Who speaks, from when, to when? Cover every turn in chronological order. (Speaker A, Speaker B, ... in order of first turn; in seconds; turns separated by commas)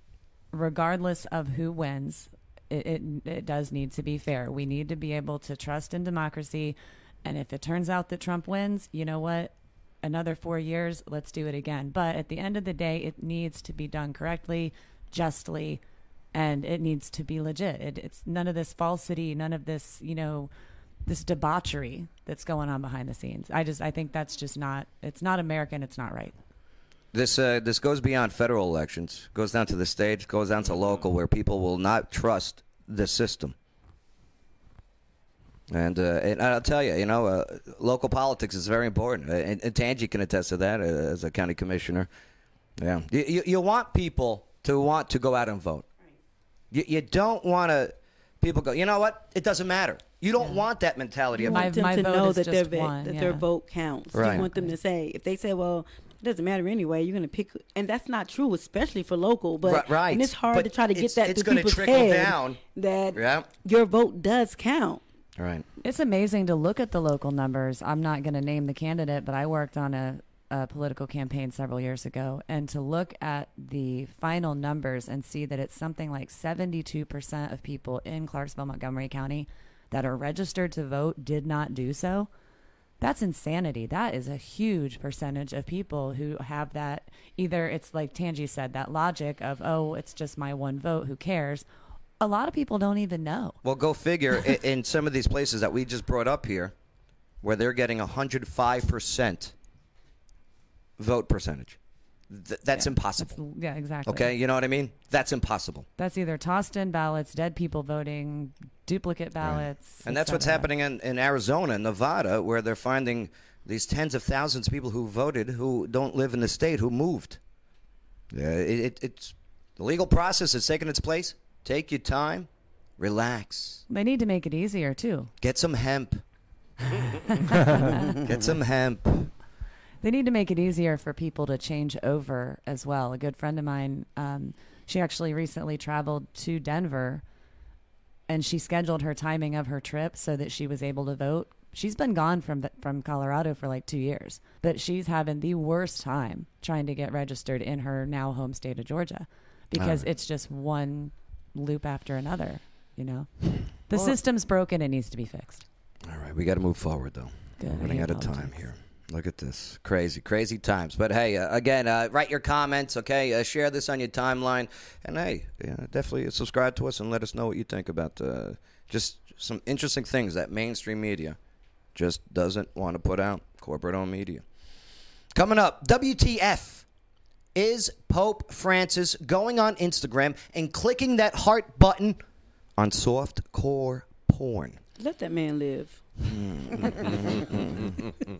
Speaker A: 0.5-15.8, Speaker A: 16.3-20.5, Speaker A: 21.1-26.3, Speaker B: 27.1-33.5, Speaker B: 35.7-42.1, Speaker B: 42.8-45.9, Speaker B: 46.7-51.7, Speaker C: 51.4-65.0, Speaker A: 51.4-53.4, Speaker B: 54.1-54.5, Speaker A: 54.3-54.7, Speaker B: 59.6-62.6, Speaker B: 63.1-63.5, Speaker B: 65.4-65.6, Speaker A: 65.8-82.3, Speaker A: 83.0-91.6, Speaker A: 92.2-93.6, Speaker B: 93.6-96.7, Speaker B: 97.4-99.5, Speaker B: 101.0-101.8, Speaker B: 102.3-103.4, Speaker A: 102.7-104.3, Speaker B: 104.0-105.8, Speaker A: 106.0-110.7, Speaker B: 109.4-117.4, Speaker B: 118.3-122.5, Speaker B: 123.0-123.8, Speaker A: 123.9-125.3, Speaker B: 125.4-126.2, Speaker A: 127.0-128.2, Speaker B: 128.2-129.3, Speaker A: 130.0-137.2, Speaker A: 138.3-155.6, Speaker B: 149.7-150.1, Speaker B: 156.1-171.4, Speaker A: 157.6-158.7, Speaker B: 171.9-174.4, Speaker B: 175.3-176.8, Speaker B: 177.5-182.2, Speaker B: 182.8-184.8, Speaker C: 185.0-186.0, Speaker B: 186.2-187.8, Speaker C: 186.8-187.3